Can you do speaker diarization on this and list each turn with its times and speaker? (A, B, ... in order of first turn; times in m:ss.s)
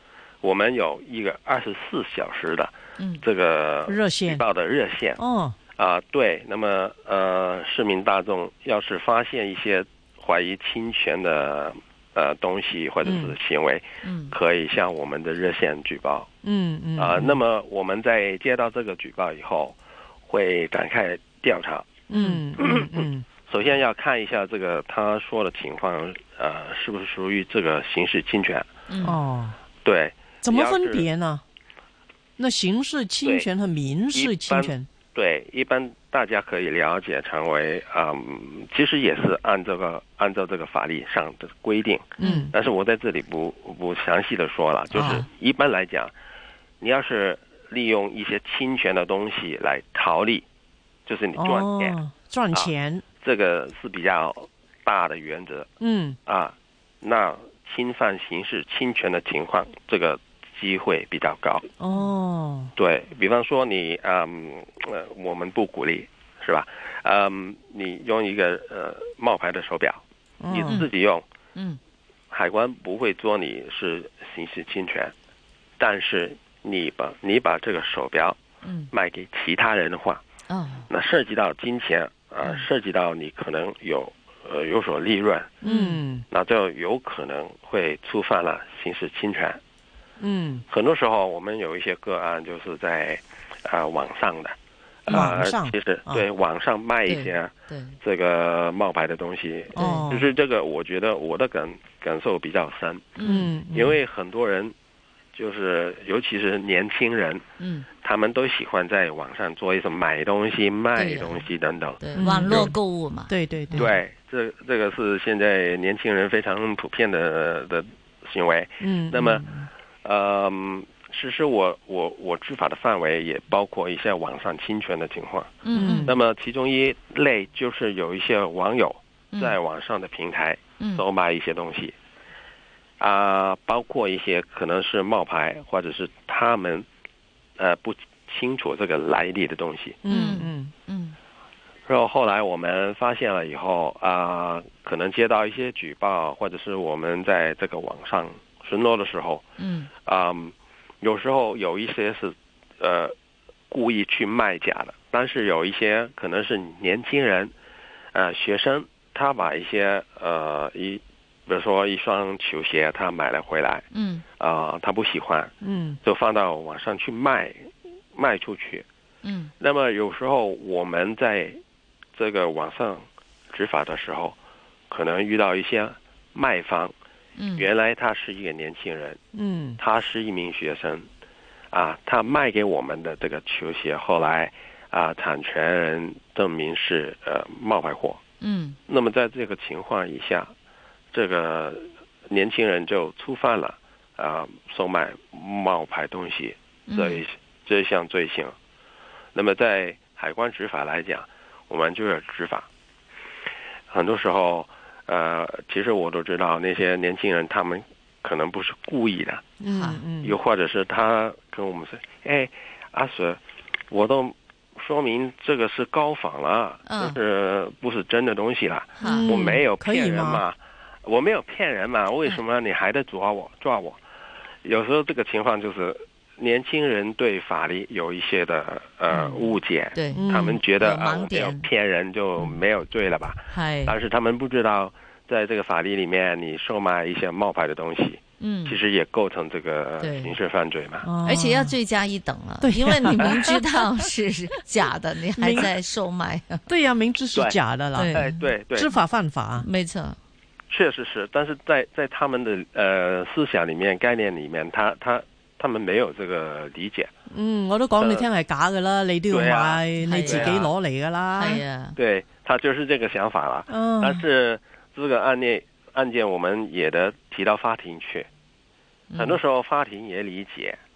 0:00.4-0:05.2 A
0:03.9-0:04.4 B
0:05.2-0:05.6 B
0:05.8-0:16.3 A
0:13.0-0:13.3 B
0:14.0-0:14.4 C
0:16.4-0:17.4 B
0:17.0-0:22.0 A
0:22.1-0:23.2 B
0:22.1-0:22.4 C
0:22.6-0:28.7 A
0:28.9-0:29.2 C
0:29.0-0:29.6 B
0:29.8-0:31.1 A
0:30.4-0:31.4 B
0:32.4-0:34.9 B
0:34.1-0:46.1 A
0:42.2-0:42.5 B
0:42.2-0:42.5 C
0:44.9-0:45.3 B
0:46.8-0:50.4 A
0:51.1-0:52.0 A
0:51.4-0:53.0 B
0:53.2-0:55.7 A
0:55.8-0:56.2 B
0:56.3-1:01.7 A
1:01.8-1:02.7 B
1:02.8-1:11.2 A
1:10.4-1:10.8 B
1:11.6-1:11.8 C
1:12.3-1:15.1 A
1:15.8-1:18.4 A
1:18.6-1:18.9 C
1:18.9-1:20.2 A
1:20.5-1:20.9 C
1:20.9-1:25.6 A
1:25.6-1:26.3 B
1:25.6-1:26.0 C
1:26.3-1:29.6 A
1:30.2-1:30.6 B
1:30.7-1:44.7 A
1:35.1-1:36.2 B
1:37.1-1:38.0 C
1:39.8-1:40.3 B
1:39.8-1:40.0 C
1:43.2-1:43.5 C
1:43.2-1:43.9 B
1:45.3-1:47.4 A
1:47.6-1:47.9 C
1:48.0-1:52.7 A
1:51.0-1:51.5 C
1:52.0-1:53.9 C
1:52.2-1:52.8 B
1:53.3-1:53.9 B
1:53.8-1:59.4 A
1:58.8-1:59.4 B
2:00.0-2:11.9 A
2:05.6-2:06.1 C
2:05.8-2:06.1 B
2:13.0-2:16.9 A
2:17.6-2:20.0 A
2:20.0-2:20.7 B
2:20.1-2:21.2 C
2:21.9-2:29.4 A
2:29.6-2:29.9 C
2:30.0-2:33.1 A
2:33.7-2:37.5 A
2:38.1-2:43.8 A
2:43.9-2:44.2 C
2:44.4-2:45.5 A
2:45.6-2:46.0 B
2:46.0-2:48.8 A
2:49.2-2:49.5 C
2:49.6-2:51.6 A
2:52.2-2:54.4 A
2:54.9-2:56.9 A
2:57.4-2:57.7 C
2:57.6-2:59.2 A
2:59.3-2:59.8 B
2:59.8-3:01.1 A
3:01.7-3:08.2 A
3:08.4-3:08.8 C
3:08.9-3:10.5 A
3:11.1-3:18.6 A
3:16.9-3:17.2 C
3:19.4-3:22.7 A
3:23.9-3:29.6 A
3:29.6-3:30.4 B
3:29.7-3:30.0 C
3:30.2-3:44.0 A
3:36.9-3:37.2 C
3:39.0-3:39.4 C
3:39.0-3:40.4 B
3:44.6-4:01.1 A
3:49.1-3:51.7 C
3:50.1-3:50.6 B
3:53.5-3:54.0 C
3:58.4-3:58.8 C
4:00.0-4:00.4 C
4:01.0-4:01.8 B
4:01.2-4:06.6 C
4:02.6-4:03.6 B
4:05.4-4:05.7 B
4:06.7-4:09.7 B
4:08.0-4:08.3 C
4:08.1-4:08.9 A
4:09.6-4:10.2 C
4:10.7-4:17.1 A
4:17.3-4:21.6 B
4:18.0-4:18.3 A
4:19.3-4:20.7 A
4:20.0-4:20.5 C
4:21.4-4:22.0 C
4:22.0-4:28.3 A
4:23.7-4:24.2 B
4:29.1-4:29.4 C
4:29.2-4:30.8 A